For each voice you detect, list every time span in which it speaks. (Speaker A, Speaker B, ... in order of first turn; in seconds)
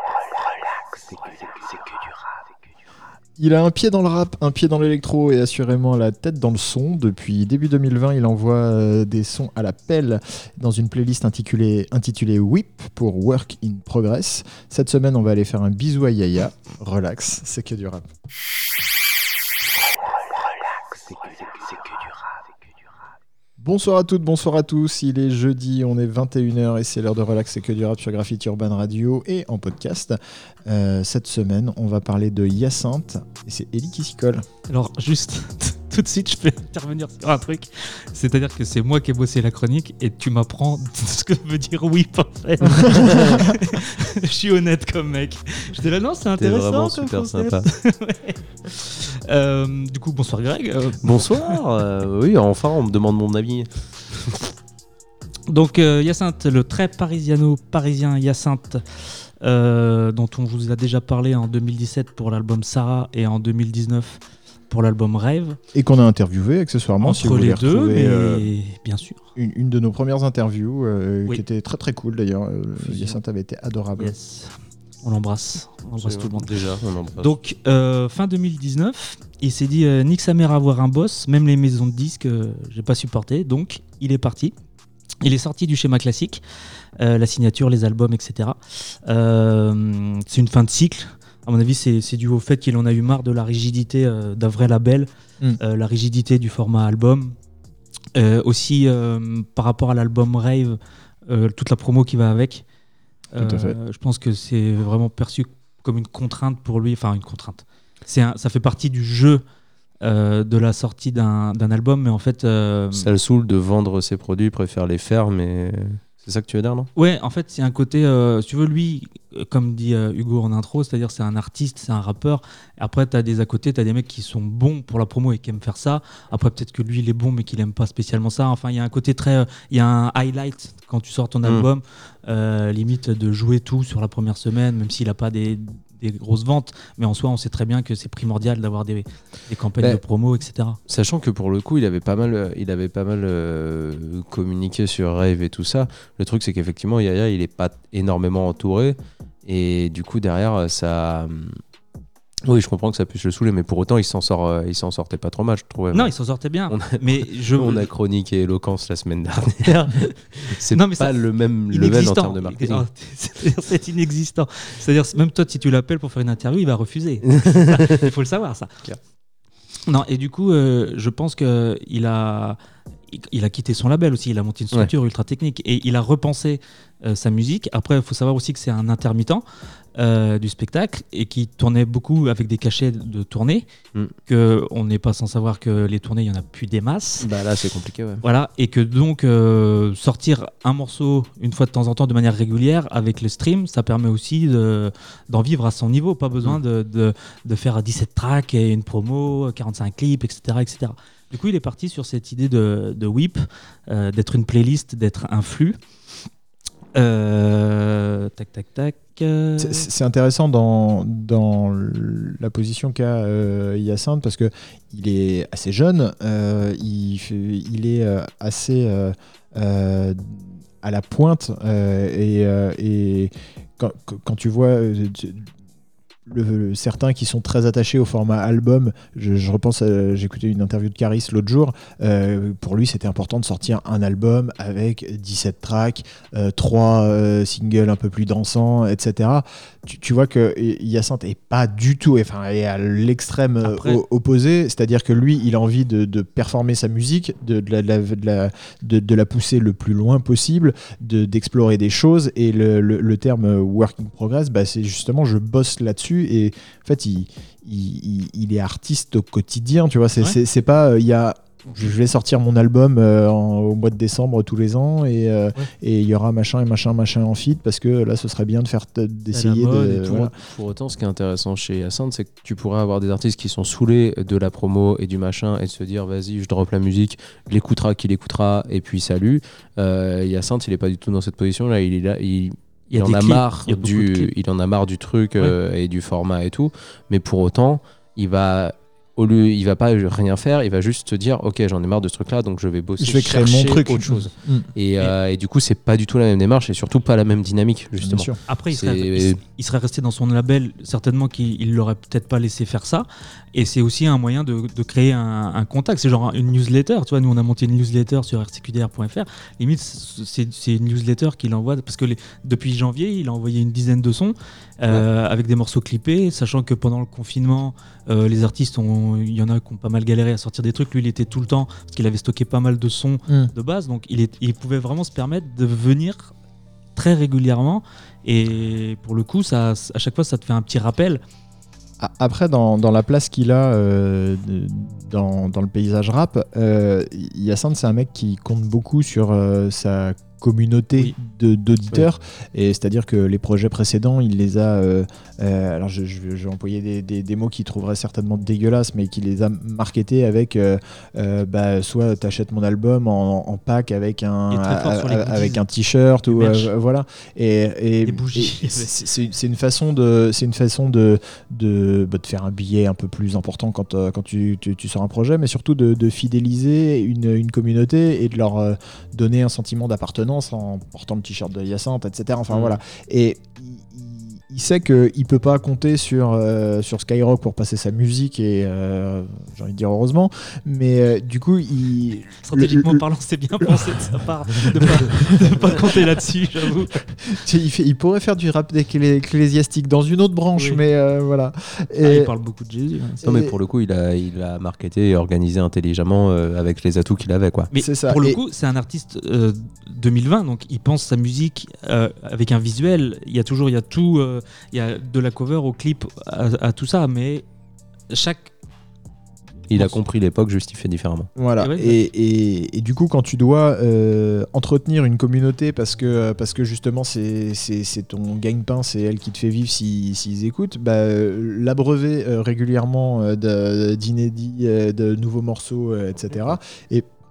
Speaker A: 3.4-18.0, 23.6-34.5, 42.7-43.5, 65.7-68.5, 69.4-74.1, 103.4-103.8, 209.6-225.5, 226.3-270.3, 293.0-294.7, 298.0-298.4, 332.0-383.0, 387.3-392.3, 393.2-393.5, 397.8-398.4, 411.4-427.1
Speaker B: 34.7-51.6, 55.5-65.6, 67.0-69.2, 72.8-73.2, 74.0-76.5, 77.2-84.5, 85.2-86.4, 87.0-97.3, 98.2-102.7, 103.3-109.4, 110.0-113.1, 117.0-140.8, 155.9-157.9, 160.7-161.2, 161.7-168.7, 169.9-172.6, 173.1-179.4, 180.0-183.7, 184.3-187.3, 188.2-205.8, 206.9-209.9, 243.6-244.0, 269.3-270.2, 282.9-284.3, 298.5-326.3, 327.0-331.2, 354.5-355.6, 356.3-356.7, 358.0-359.0, 382.4-387.1, 392.0-393.2, 397.7-407.4, 408.1-408.5, 411.6-412.0
Speaker C: 42.9-43.4, 46.4-47.7, 51.0-54.5, 76.0-77.4, 112.9-116.9, 140.9-151.6, 152.5-156.1, 156.7-162.8, 167.4-168.1, 187.2-188.2, 270.0-299.4, 372.5-372.8, 393.2-397.7, 409.7-411.3